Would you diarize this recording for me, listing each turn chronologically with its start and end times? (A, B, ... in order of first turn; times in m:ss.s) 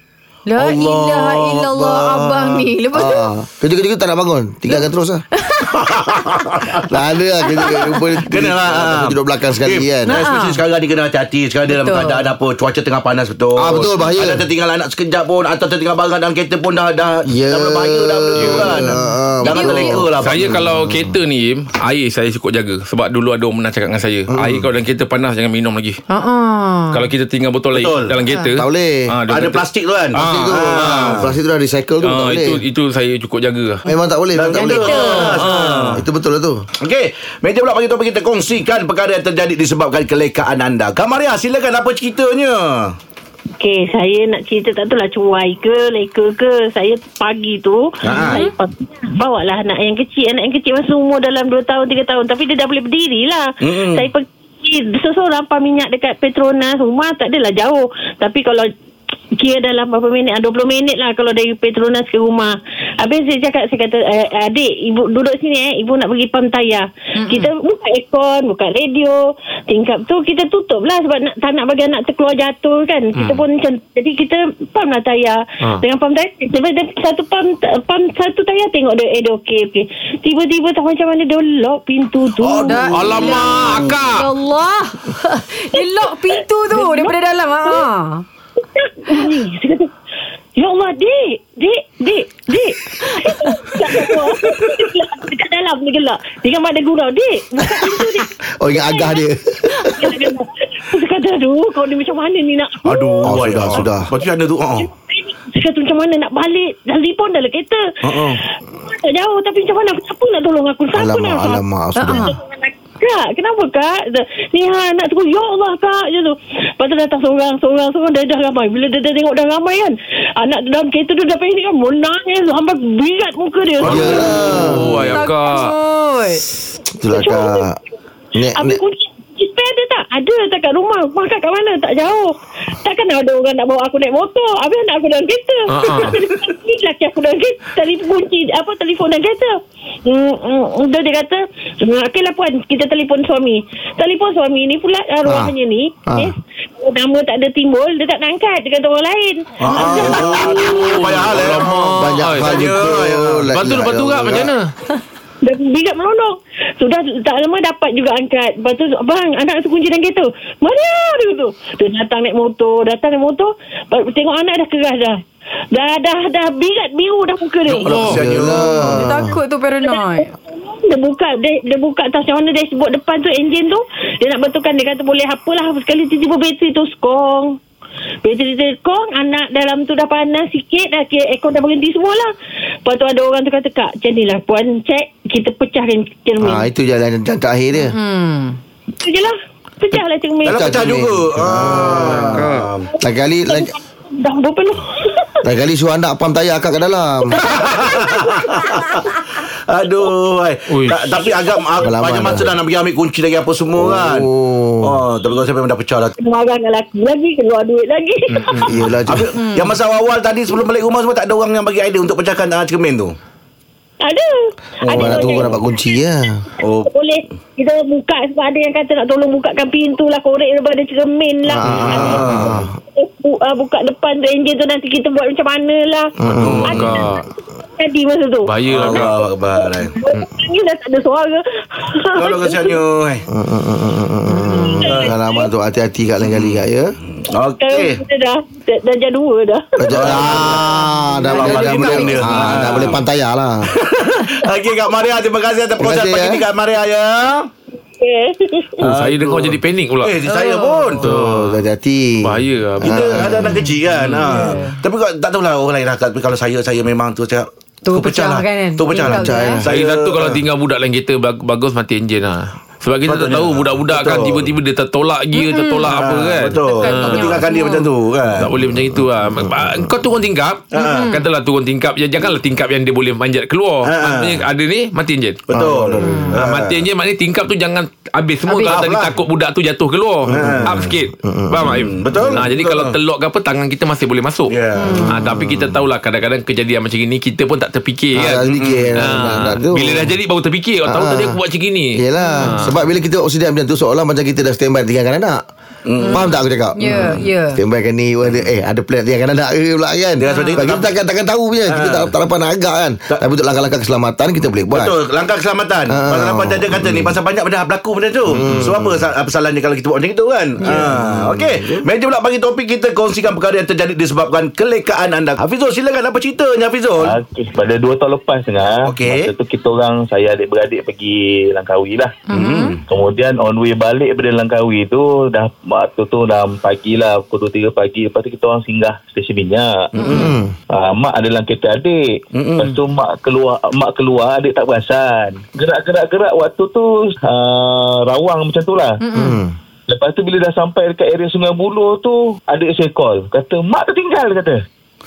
0:00.5-0:03.3 A
0:00.6-0:01.7 B
0:01.8-0:02.3 C
0:02.3-0:02.6 B
0:02.9-0:05.2 C
0:05.4-0:05.8 A
0:05.7-0:06.9 B
0:06.9-0:10.2 C
0:07.5-0:08.2 A
0:08.3-0:20.6 B
0:10.1-0:10.6 A
0:11.7-0:12.2 A
0:13.6-0:14.4 C
0:17.3-0:21.1 C
0:18.4-0:18.7 D
0:18.8-0:20.1 A
0:20.2-0:26.0 D
0:24.3-0:24.7 C
0:26.1-0:27.1 A
0:26.9-0:31.2 D
0:27.7-0:28.2 B
0:28.2-0:28.6 A
0:28.6-0:29.1 C
0:29.3-0:31.3 B
0:30.2-0:32.6 C
0:32.0-0:33.8 D
0:33.9-0:35.3 C
0:34.4-0:36.0 B
0:34.5-0:35.5 A
0:35.4-0:36.0 D
0:35.9-0:36.6 C
0:36.8-0:43.0 B
0:43.6-0:58.7 E
0:48.0-0:48.4 B
0:48.1-0:48.5 A
0:53.6-0:54.1 B
0:59.4-1:22.9 E
1:07.2-1:07.5 A
1:13.2-1:13.4 D
1:22.4-1:23.7 B
1:22.6-1:28.2 A
1:22.9-1:24.3 D
1:26.7-1:27.8 E
1:28.6-1:29.9 E
1:30.6-1:39.2 E
1:33.1-1:34.1 A
1:37.7-1:38.0 C
1:38.6-1:40.3 C
1:39.8-1:43.3 E
1:42.8-1:44.9 B
1:43.2-1:44.1 C
1:44.8-1:47.9 E
1:48.0-1:48.4 B
1:48.4-2:04.3 E
1:50.9-1:52.3 C
1:52.0-1:52.4 A
2:03.8-2:05.1 C
2:03.8-2:04.8 B
2:03.9-2:05.7 D
2:04.8-2:06.4 A
2:07.0-2:07.8 C
2:07.1-2:07.6 E
2:08.4-2:08.8 C
2:08.6-2:31.1 E
2:15.7-2:16.2 D
2:25.2-2:25.5 C
2:26.1-2:26.3 C
2:29.6-2:33.5 B
2:29.9-2:32.9 D
2:31.6-2:34.5 C
2:33.5-2:34.7 D
2:35.4-2:45.2 E
2:45.7-2:47.9 E
2:47.7-2:48.2 D
2:47.9-2:49.4 C
2:47.9-2:49.0 B
2:48.8-2:50.3 A
2:49.8-2:57.6 E
2:58.2-3:02.3 E
3:02.8-3:06.7 E
3:06.4-3:08.0 C
3:07.8-3:08.6 A
3:09.0-3:10.9 E
3:10.4-3:12.9 B
3:10.5-3:12.5 C
3:11.9-3:12.7 D
3:13.0-3:13.7 C
3:13.5-3:15.4 E
3:15.4-3:17.6 C
3:17.4-3:24.3 B
3:17.6-3:18.3 E
3:20.7-3:21.2 D
3:21.8-3:22.6 C
3:23.8-3:25.0 C
3:24.8-3:26.1 B
3:26.2-3:28.6 E
3:28.3-3:29.0 D
3:28.6-3:29.3 C
3:29.1-3:33.2 B
3:29.4-3:29.8 A
3:34.0-3:34.3 E
3:34.8-3:35.7 E
3:34.9-3:35.6 B
3:34.9-3:36.4 C
3:36.6-3:36.9 B
3:36.8-3:42.2 E
3:41.5-3:42.7 C
3:41.7-3:42.7 B
3:41.8-3:42.4 D
3:42.9-3:46.1 E
3:46.2-3:46.9 C
3:46.3-3:47.2 D
3:46.4-3:47.0 B
3:46.7-3:52.8 E
3:48.5-3:49.2 D
3:48.7-3:49.9 B
3:52.2-3:53.2 B
3:53.3-3:56.9 C
3:54.3-3:54.9 A
3:54.5-3:55.5 E
3:54.9-3:55.1 B
3:56.2-3:58.0 B
3:57.6-3:59.6 E
3:59.8-4:03.8 C
3:59.9-4:03.0 B
4:00.2-4:02.9 A
4:03.7-4:07.5 B
4:05.8-4:06.4 C
4:08.0-4:08.8 E
4:08.8-4:10.2 D
4:08.8-4:11.0 B
4:10.2-4:11.1 A
4:11.0-4:11.6 D
4:11.0-4:13.6 C
4:12.2-4:13.2 D
4:12.8-4:20.4 B
4:13.4-4:14.8 A
4:14.0-4:14.5 D
4:17.9-4:19.6 A
4:18.9-4:19.6 C
4:19.6-4:27.5 D
4:23.1-4:24.5 B
4:25.3-4:27.9 A
4:25.9-4:28.5 B
4:28.4-4:35.4 D
4:30.7-4:31.1 B
4:30.8-4:31.2 A
4:33.8-4:34.4 B
4:35.5-4:36.8 B
4:35.5-4:36.4 C
4:36.0-4:36.4 A
4:36.3-4:44.6 D
4:38.5-4:38.8 A
4:38.6-4:39.2 B
4:40.3-4:42.4 C
4:40.3-4:40.9 B
4:41.6-4:43.0 B
4:44.5-4:45.2 B
4:44.8-4:45.1 A
4:44.8-4:45.7 C
4:45.1-4:52.8 D
4:48.1-4:50.1 C
4:48.6-4:48.9 B
4:50.9-4:51.4 C
4:52.0-4:55.4 C
4:52.2-4:52.6 A
4:55.9-4:56.3 B
4:56.0-4:57.6 A
4:56.1-5:05.0 C
5:00.2-5:00.9 B
5:00.3-5:00.6 A
5:01.7-5:02.1 B
5:04.7-5:17.2 B
5:05.9-5:07.2 C
5:08.3-5:09.1 C
5:10.6-5:11.8 C
5:17.0-5:22.2 F
5:18.9-5:19.3 B
5:22.3-5:22.8 A
5:22.3-5:22.8 B
5:22.8-5:30.2 F
5:30.0-5:30.4 B
5:30.0-5:30.3 A
5:30.1-5:30.5 C
5:30.7-5:32.0 F
5:32.4-5:32.8 B
5:32.6-5:39.0 F
5:39.0-5:39.4 A
5:39.1-5:39.5 C
5:39.9-5:44.6 F